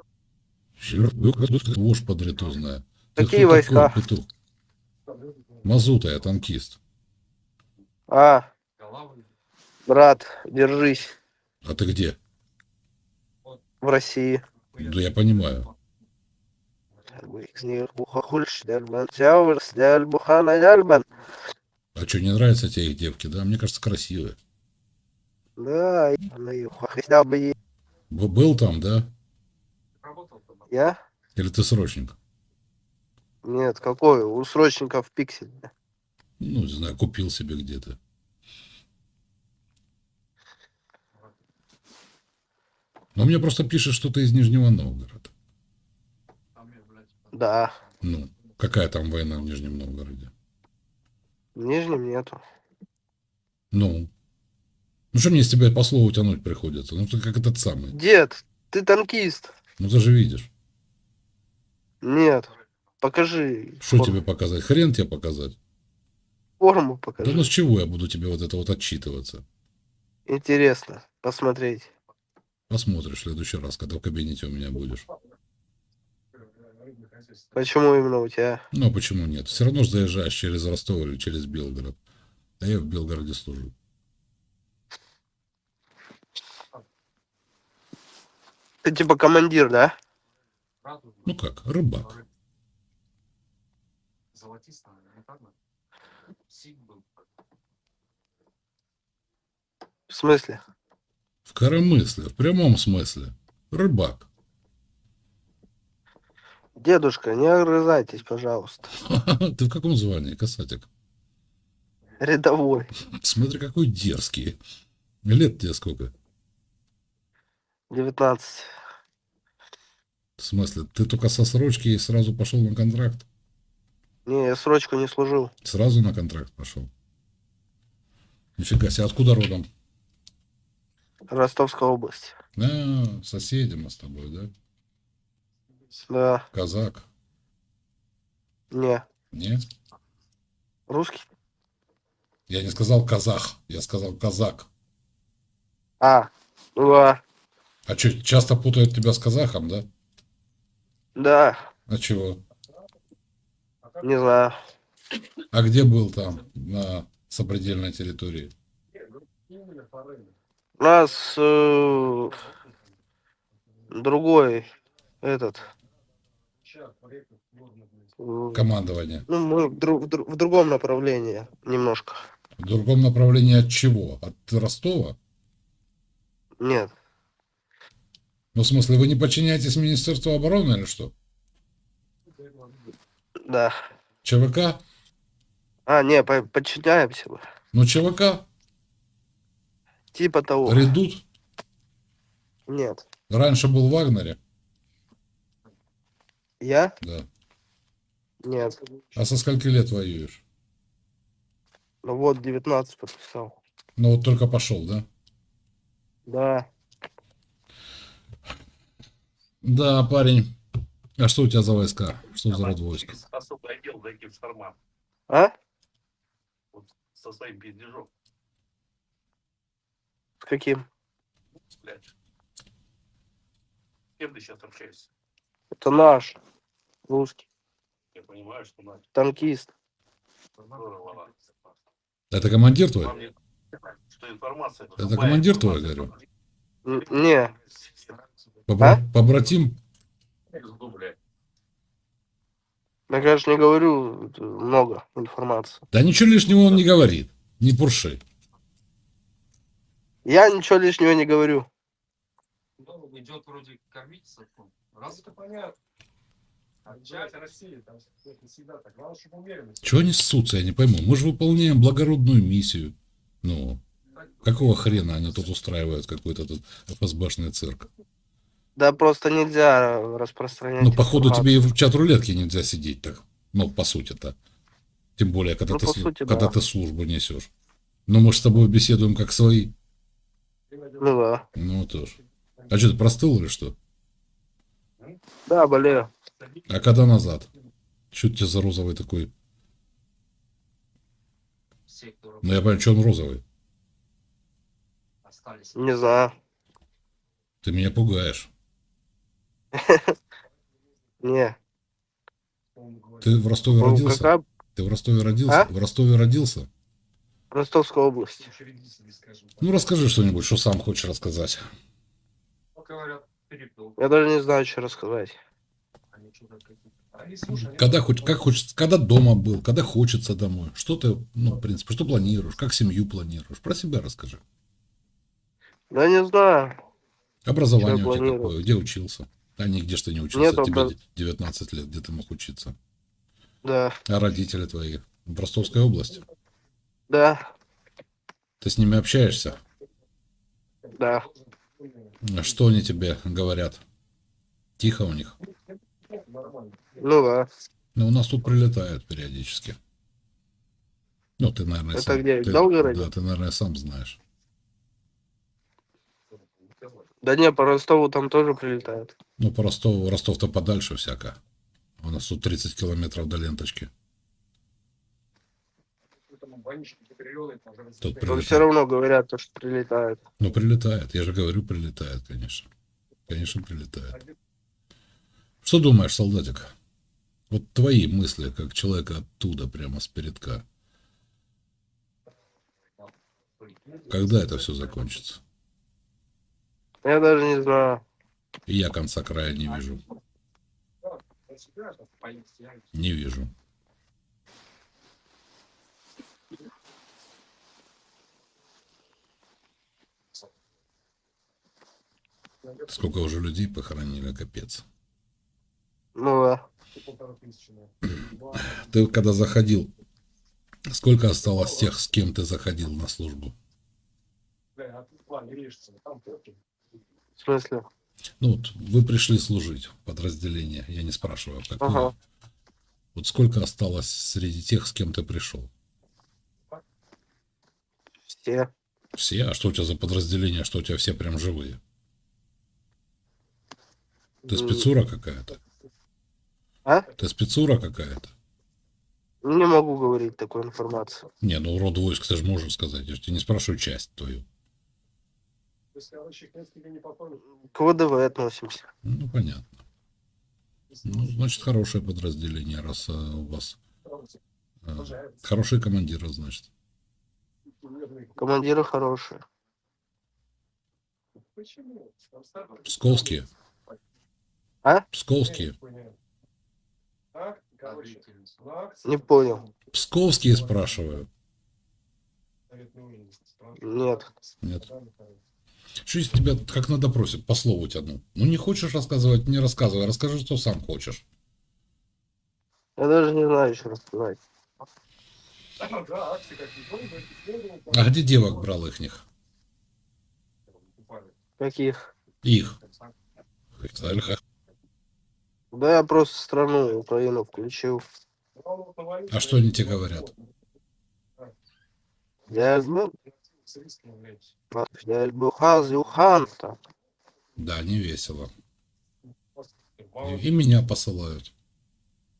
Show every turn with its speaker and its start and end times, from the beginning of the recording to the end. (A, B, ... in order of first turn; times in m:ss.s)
0:00.8-0:04.3 A
0:03.2-0:04.0 B
0:05.6-0:06.8 A
0:08.1-0:08.5 B
0:09.9-0:11.2 B
0:11.6-0:12.2 A
0:13.8-0:14.4 B
0:14.8-0:15.7 A
0:17.2-0:21.1 B
0:22.0-0:24.4 A
0:25.6-0:27.6 B
0:28.1-0:29.1 A
0:30.7-0:31.0 B
0:31.4-0:32.2 A
0:33.4-0:35.7 B
0:36.4-0:38.0 A
0:43.2-0:45.3 A
0:47.3-0:47.7 B
0:48.0-0:50.3 A
0:51.6-0:52.4 B
0:53.7-0:54.1 A
0:55.1-0:58.0 A
0:57.9-0:59.5 B
0:59.8-1:00.5 A
1:02.0-1:04.2 B
1:03.8-1:05.6 A
1:06.6-1:07.5 B
1:07.2-1:09.4 A
1:10.3-1:11.9 B
1:12.7-1:15.1 A
1:17.6-1:18.6 B
1:18.7-1:22.0 A
1:22.6-1:23.7 A
1:28.8-1:30.0 B
1:31.3-1:32.2 A
1:40.1-1:40.6 B
1:41.5-1:44.3 A
1:46.8-1:48.9 B
1:49.0-1:50.9 A
1:52.2-1:52.9 B
1:53.1-1:54.6 A
1:55.2-1:56.1 A
1:57.9-1:58.7 B
2:00.4-2:03.3 A
2:04.3-2:05.5 B
2:05.6-2:06.9 A
2:08.6-2:09.7 A
2:11.3-2:12.4 B
2:12.6-2:14.5 A
2:16.1-2:16.5 B
2:16.5-2:17.1 A
2:18.7-2:19.1 B
2:19.3-2:19.6 A
2:20.9-2:21.3 B
2:22.5-2:24.7 A
2:26.0-2:27.2 B
2:27.9-2:29.9 A
2:31.2-2:31.7 B
2:31.9-2:32.4 A
2:34.0-2:34.6 B
2:35.5-2:38.5 A
2:40.8-2:42.4 B
2:43.9-2:44.7 B
2:45.2-2:45.7 B
2:48.2-2:48.7 B
2:48.5-2:49.3 A
2:49.3-2:52.2 B
2:52.6-2:55.2 A
2:56.6-2:56.9 B
2:58.6-3:01.1 A
3:03.4-3:03.8 B
3:04.2-3:04.8 A
3:05.9-3:07.4 B
3:07.7-3:08.5 A
3:10.1-3:10.9 B
3:10.6-3:11.2 A
3:12.7-3:13.0 B
3:13.3-3:14.4 A
3:16.6-3:17.0 B
3:17.0-3:17.3 A
3:18.4-3:18.8 B
3:19.2-3:20.4 A
3:22.0-3:23.6 B
3:24.0-3:25.1 A
3:26.3-3:26.7 B
3:29.6-3:30.5 A
3:31.2-3:33.2 A
3:33.3-3:34.7 C
3:35.3-3:35.5 B
3:37.2-3:38.1 C
3:40.4-3:40.9 B
3:44.2-3:45.0 C
3:45.8-3:46.4 B
3:47.1-3:47.4 B
3:48.3-3:48.9 C
3:49.1-3:49.7 B
3:50.9-3:51.3 C
3:52.3-3:53.3 A
3:54.2-3:55.0 C
3:55.0-3:56.2 A
3:56.8-3:57.6 B
3:58.7-3:59.8 A
4:03.1-4:05.8 B
4:05.9-4:08.2 A
4:10.2-4:11.7 B
4:13.1-4:14.5 C
4:15.1-4:15.6 C
4:17.2-4:17.7 C
4:19.8-4:23.8 A
4:24.4-4:27.9 A
4:28.8-4:31.5 B
4:30.8-4:34.4 A
4:35.2-4:37.5 A
4:35.7-4:36.5 B
4:38.1-4:39.7 A
4:41.0-4:41.5 B
4:41.6-4:43.8 A
4:45.5-4:46.1 B
4:46.7-4:47.5 A
4:48.1-4:49.3 A
4:52.4-4:53.4 A
4:55.7-4:56.4 B
4:57.6-4:58.5 A
4:59.7-5:00.2 B
5:01.2-5:01.6 B
5:03.2-5:06.7 A
5:03.8-5:04.4 B
5:07.5-5:08.5 B
5:09.6-5:11.6 A
5:14.0-5:15.4 B
5:17.4-5:24.4 A
5:25.9-5:26.8 B
5:27.5-5:32.8 A
5:27.8-5:28.5 B
5:30.3-5:31.0 B
5:33.6-5:34.0 B
5:34.1-5:36.2 A
5:37.1-5:37.5 B
5:38.6-5:39.6 A
5:41.0-5:41.3 B
5:42.2-5:43.8 A
5:44.8-5:45.4 A
5:47.0-5:47.5 B
5:48.0-5:49.8 A
5:51.4-5:54.2 A
5:51.9-5:53.1 B
5:57.2-5:59.1 B
5:59.4-6:01.4 A
6:02.0-6:03.9 A
6:08.0-6:08.7 A
6:08.2-6:10.2 B
6:10.4-6:12.7 A
6:13.3-6:14.2 A
6:15.6-6:16.7 A
6:17.5-6:20.6 A
6:24.1-6:25.4 A
6:27.0-6:28.0 B
6:28.7-6:30.0 A
6:32.9-6:33.5 A
6:42.9-6:44.8 A
6:46.2-6:46.7 B
6:48.2-6:49.9 A
6:50.9-6:53.5 A
6:57.4-6:57.9 B
6:58.4-7:02.1 A
7:01.8-7:02.1 B
7:03.2-7:05.7 A
7:08.3-7:08.7 B
7:09.2-7:11.8 A
7:14.4-7:14.9 B
7:14.5-7:15.6 A
7:17.2-7:18.3 A
7:19.4-7:21.3 B
7:21.4-7:24.5 A
7:27.4-7:28.8 B
7:29.0-7:29.7 A
7:31.0-7:33.8 A
7:34.9-7:36.7 A
7:38.4-7:39.4 B
7:42.8-7:43.5 A
7:45.1-7:45.8 A
7:47.8-7:48.2 C
7:49.0-7:49.7 B
7:49.9-7:51.3 A
7:53.8-7:54.3 B
7:54.6-7:54.9 A
7:56.0-8:01.2 A
8:03.0-8:04.4 B
8:07.9-8:09.2 A
8:11.6-8:12.0 B
8:12.4-8:12.8 A
8:13.8-8:14.4 A
8:15.7-8:18.0 B
8:19.3-8:20.3 A
8:22.5-8:23.1 B
8:24.7-8:26.8 B
8:27.6-8:28.5 A
8:30.2-8:31.5 A